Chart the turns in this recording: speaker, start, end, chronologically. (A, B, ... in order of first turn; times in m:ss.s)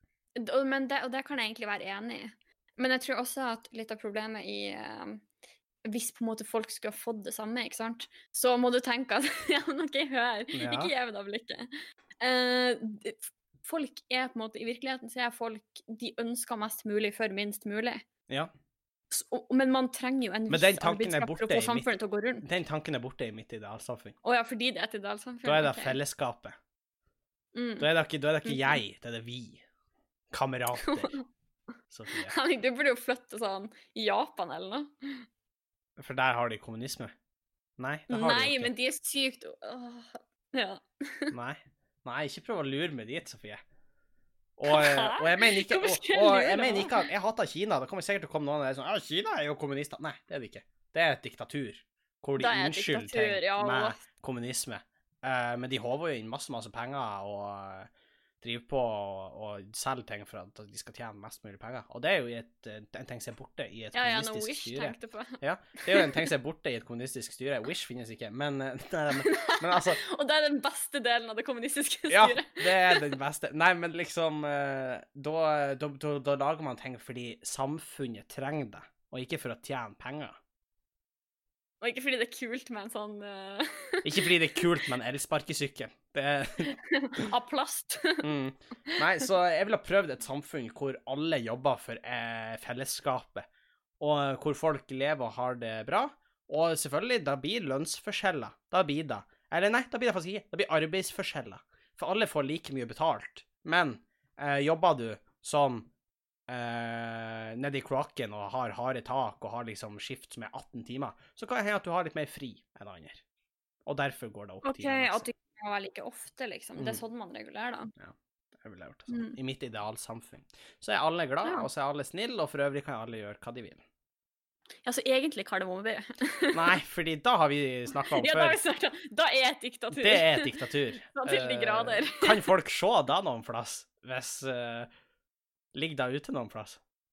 0:00.4-0:05.2 A
0:05.8-0:11.7 A
0:10.5-0:10.9 B
0:12.2-0:18.0 A
0:19.1-0:22.4 A
0:20.5-0:24.1 B
0:24.2-0:26.0 A
0:25.4-0:26.6 B
0:27.5-0:27.8 A
0:27.8-0:29.6 B
0:28.4-0:28.8 A
0:30.3-0:31.2 B
0:30.8-0:31.2 A
0:31.9-0:32.3 B
0:32.1-0:35.2 A
0:36.0-0:37.1 B
0:37.8-0:38.7 B
0:38.1-0:41.3 A
0:41.3-0:43.6 B
0:44.6-0:57.9 B
0:44.7-0:47.0 A
0:52.4-0:54.0 A
0:58.4-1:10.0 B
1:03.9-1:06.3 A
1:09.2-1:13.1 A
1:12.1-1:20.4 B
1:21.8-1:24.3 A
1:24.0-1:26.7 B
1:26.7-1:28.2 A
1:28.2-1:33.4 B
1:34.0-1:45.9 B
1:46.5-1:53.2 B
1:53.8-1:55.3 B
1:54.6-1:57.9 A
1:58.0-2:03.8 B
1:59.1-1:59.4 A
2:04.8-2:06.8 A
2:06.5-2:08.6 B
2:08.1-2:12.4 A
2:09.9-2:14.9 B
2:15.7-2:16.8 B